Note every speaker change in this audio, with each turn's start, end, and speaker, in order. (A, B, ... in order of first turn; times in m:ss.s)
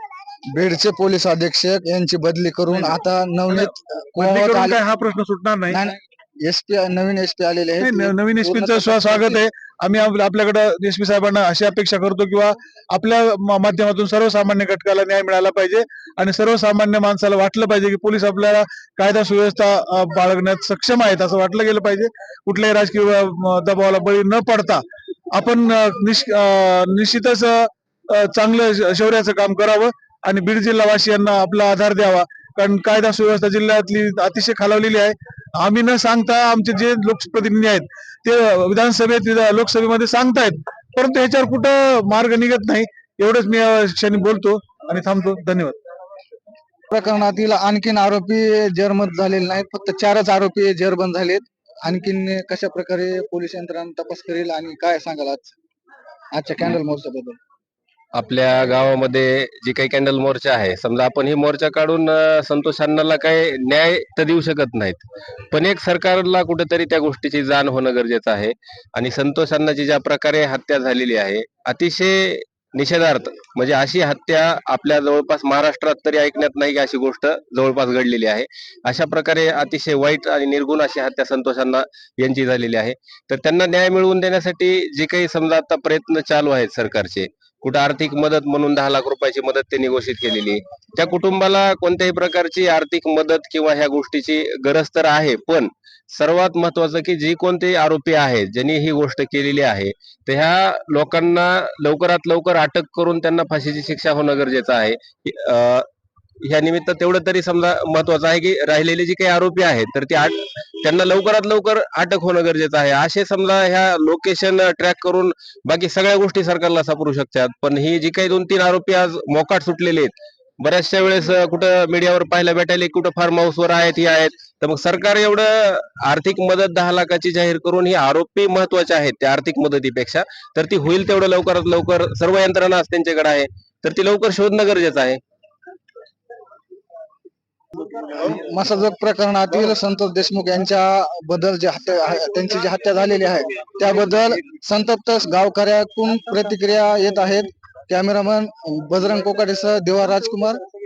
0:00.5-0:04.8 A
0:03.5-0:05.8 B
0:05.7-0:09.4 A
0:07.8-0:45.8 B
0:46.9-0:55.5 A
0:56.3-0:57.4 A
0:58.2-1:45.9 C
1:46.4-2:15.2 C
2:18.0-2:30.6 A